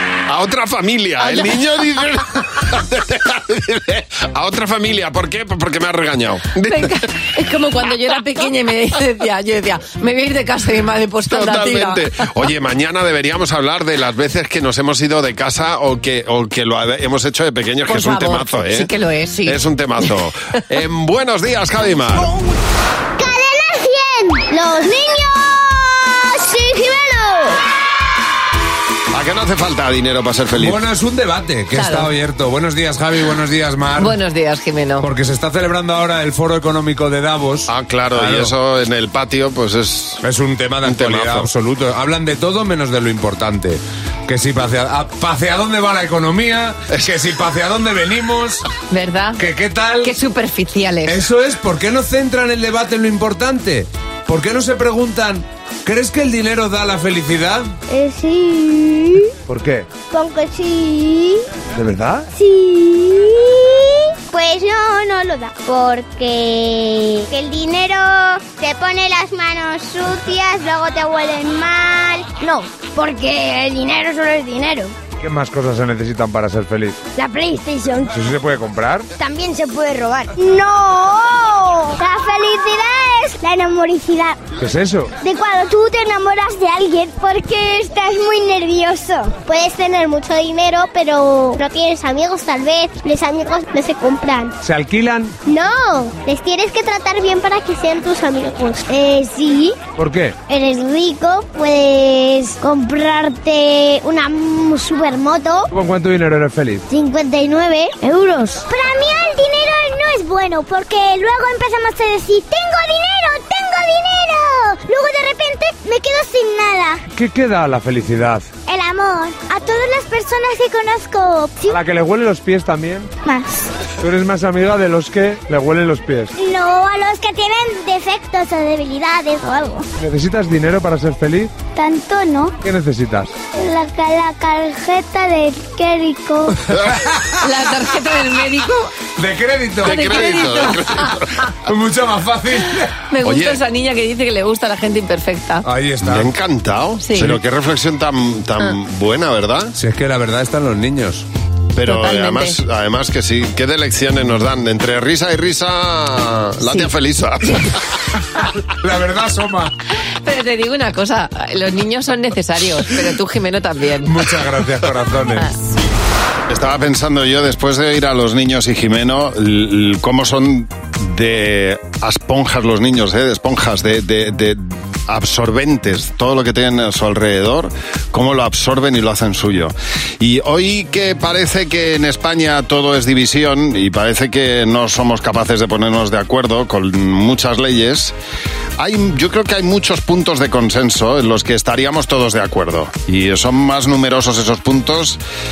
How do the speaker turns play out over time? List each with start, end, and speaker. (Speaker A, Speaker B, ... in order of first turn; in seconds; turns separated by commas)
Speaker A: 0.3-6.9, Speaker B: 1.2-1.6, Speaker B: 6.7-12.0, Speaker A: 11.3-18.9, Speaker B: 17.9-19.6, Speaker A: 19.5-22.3, Speaker C: 23.2-27.6, Speaker A: 29.1-30.8, Speaker D: 30.6-34.2, Speaker B: 31.7-32.1, Speaker B: 34.0-35.1, Speaker D: 35.0-38.5, Speaker A: 37.7-40.2, Speaker D: 40.2-48.6, Speaker A: 40.8-41.5, Speaker B: 48.9-49.4, Speaker D: 49.4-50.1, Speaker B: 50.0-51.2, Speaker D: 51.1-57.7, Speaker C: 57.9-59.3, Speaker E: 59.5-59.9, Speaker C: 60.1-61.5, Speaker E: 61.7-62.3, Speaker C: 62.3-74.9, Speaker E: 75.2-77.0, Speaker C: 77.2-78.2, Speaker E: 78.1-79.1, Speaker C: 79.2-84.4, Speaker E: 84.6-85.1, Speaker C: 85.2-94.5, Speaker E: 94.6-95.4, Speaker C: 95.5-99.8, Speaker E: 100.0-100.4, Speaker C: 100.5-105.7, Speaker E: 105.7-106.8, Speaker C: 106.9-117.0, Speaker E: 117.1-118.5, Speaker C: 118.7-121.8, Speaker E: 121.7-123.1, Speaker C: 123.2-123.7, Speaker E: 124.0-126.3, Speaker C: 126.4-129.9, Speaker E: 130.0-131.6, Speaker C: 131.7-132.6, Speaker E: 132.6-133.3, Speaker C: 133.6-136.6, Speaker B: 137.4-138.9, Speaker D: 139.2-140.5, Speaker B: 139.8-141.1, Speaker A: 139.8-141.3, Speaker D: 141.7-142.9, Speaker B: 143.1-145.7, Speaker A: 143.2-143.6, Speaker D: 145.7-146.3, Speaker A: 146.0-149.8, Speaker B: 147.0-147.4, Speaker D: 149.8-151.2, Speaker A: 151.8-157.6, Speaker B: 151.9-152.6, Speaker B: 156.6-156.9, Speaker D: 158.8-159.7, Speaker B: 160.2-164.1, Speaker D: 164.1-165.5, Speaker A: 166.5-188.2, Speaker A: 188.8-195.2